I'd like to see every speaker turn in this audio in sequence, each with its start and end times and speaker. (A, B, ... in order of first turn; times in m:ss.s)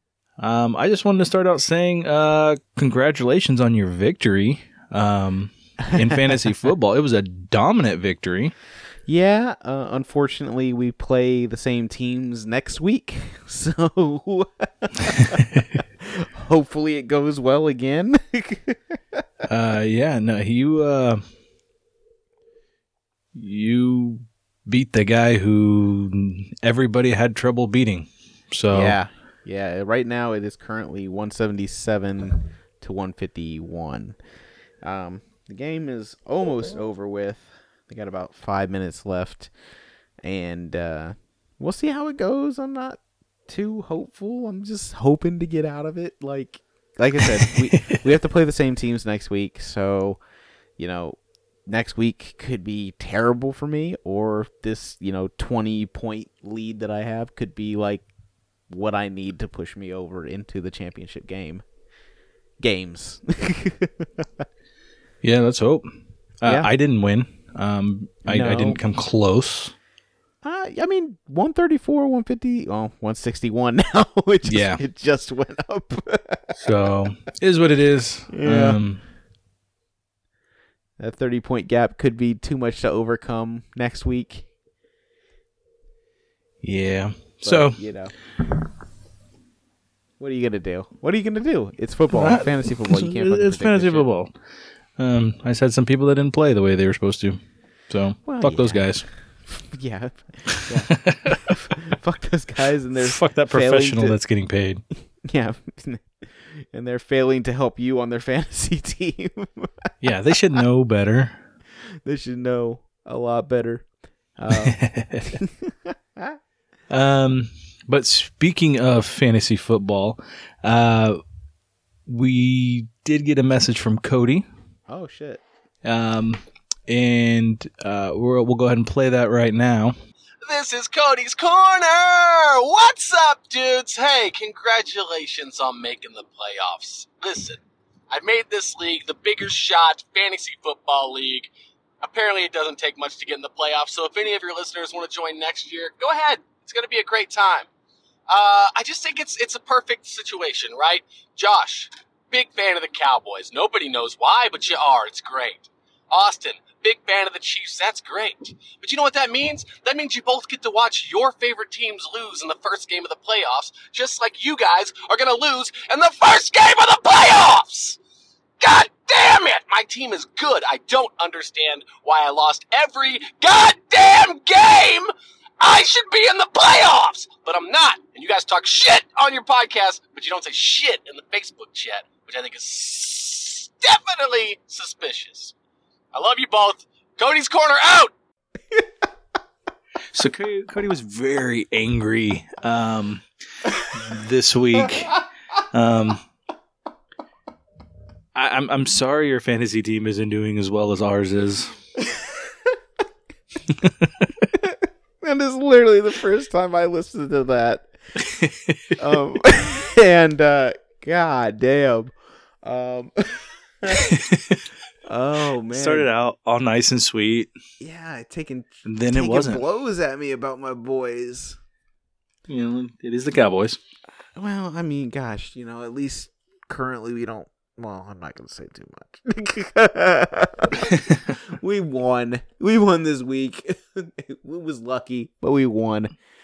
0:00.4-0:08.5 A
0:06.0-0:06.4 B
0:09.1-0:19.2 B
0:19.5-0:21.2 A
0:23.3-0:29.0 A
0:28.7-0:34.2 B
0:34.8-0:39.5 B
0:40.2-0:50.2 B
0:50.8-0:58.1 B
0:58.7-1:01.6 B
1:02.6-1:04.4 B
1:05.2-1:09.7 A
1:06.4-1:06.7 B
1:08.2-1:08.8 B
1:10.4-1:16.6 B
1:14.4-1:14.8 A
1:16.6-1:19.0 A
1:18.3-1:18.8 B
1:21.0-1:24.5 B
1:26.6-1:27.8 A
1:27.4-1:28.1 B
1:30.2-1:34.1 B
1:32.1-1:34.3 A
1:35.0-1:39.0 A
1:38.2-1:39.0 B
1:39.7-1:44.2 B
1:41.1-1:41.5 A
1:43.0-1:44.8 A
1:45.2-1:49.9 B
1:50.0-1:51.4 A
1:52.0-1:53.8 B
1:54.4-1:56.4 B
1:54.5-1:55.2 A
1:56.9-2:01.2 A
2:02.1-2:04.5 A
2:04.9-2:05.4 B
2:05.8-2:09.9 A
2:10.4-2:27.7 C
2:28.3-2:48.0 C
2:48.6-3:05.5 C
3:06.1-3:08.1 C
3:10.1-3:13.2 A
3:13.9-3:15.2 A
3:15.7-3:16.2 A
3:18.3-3:21.8 A
3:24.6-3:27.9 B
3:28.3-3:28.8 A
3:29.0-3:34.0 B
3:33.9-3:34.6 A
3:35.1-3:36.1 B
3:35.7-3:37.5 A
3:37.8-3:41.6 B
3:38.8-3:39.6 A
3:42.5-3:43.8 A
3:44.4-3:50.9 B
3:51.5-3:56.1 B